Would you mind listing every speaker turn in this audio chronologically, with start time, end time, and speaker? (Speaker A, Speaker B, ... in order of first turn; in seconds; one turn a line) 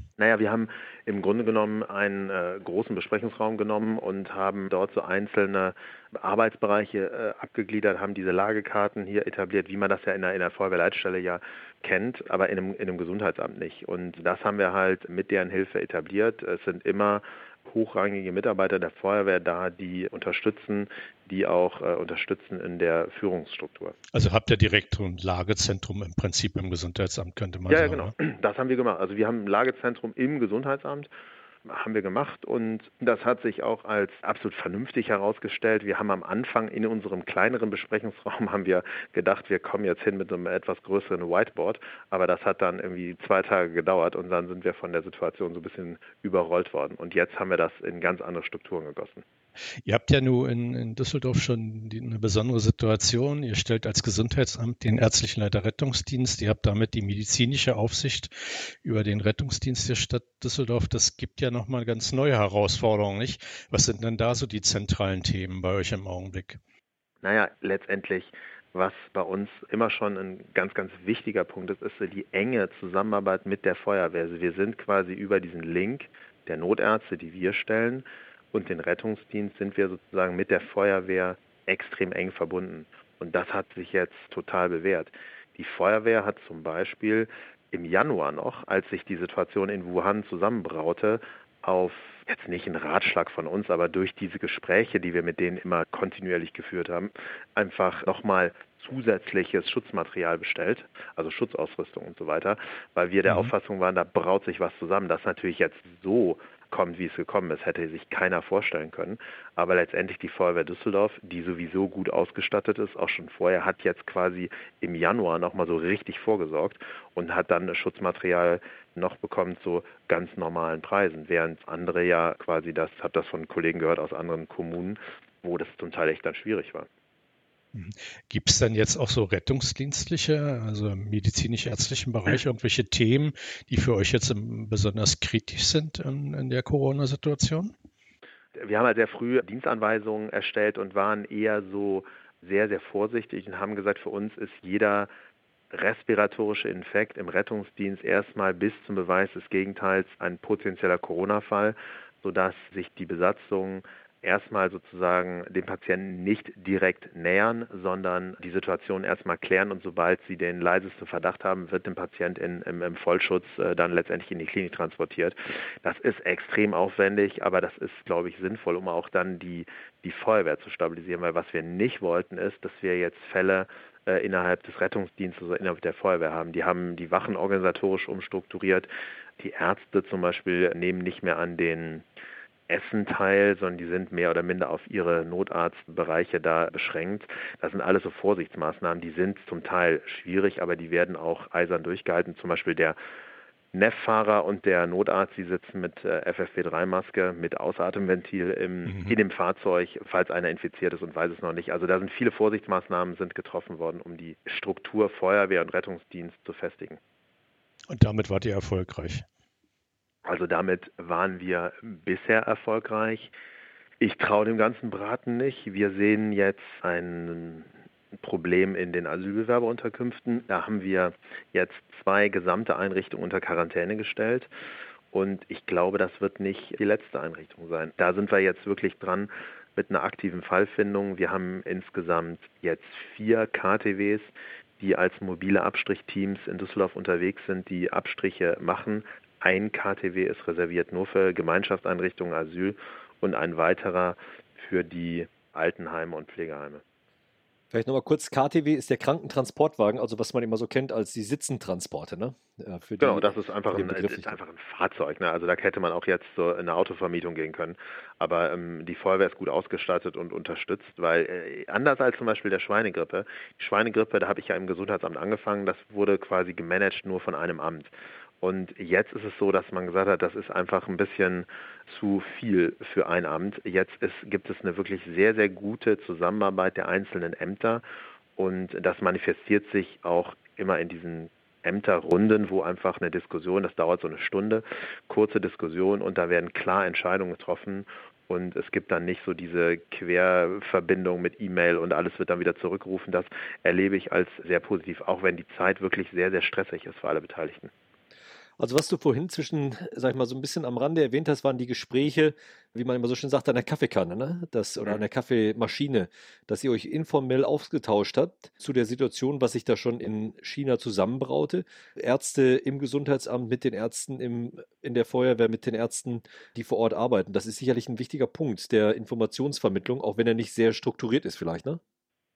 Speaker A: 0.2-23.9
Speaker B: 24.1-28.1
Speaker A: 27.7-31.1
Speaker A: 31.7-49.2
Speaker B: 49.9-66.6
Speaker A: 67.2-126.9
Speaker B: 103.3-103.5
Speaker B: 127.7-137.7
Speaker A: 138.6-145.1
Speaker A: 145.7-178.9
Speaker A: 179.4-182.1
Speaker A: 182.7-193.0
Speaker A: 193.7-207.0
Speaker B: 198.9-199.2
Speaker B: 207.9-209.2
Speaker A: 210.2-213.3
Speaker A: 214.0-224.5
Speaker A: 225.1-246.8
Speaker C: 247.7-254.3
Speaker A: 253.0-277.8
Speaker A: 278.4-297.7
Speaker C: 298.6-321.8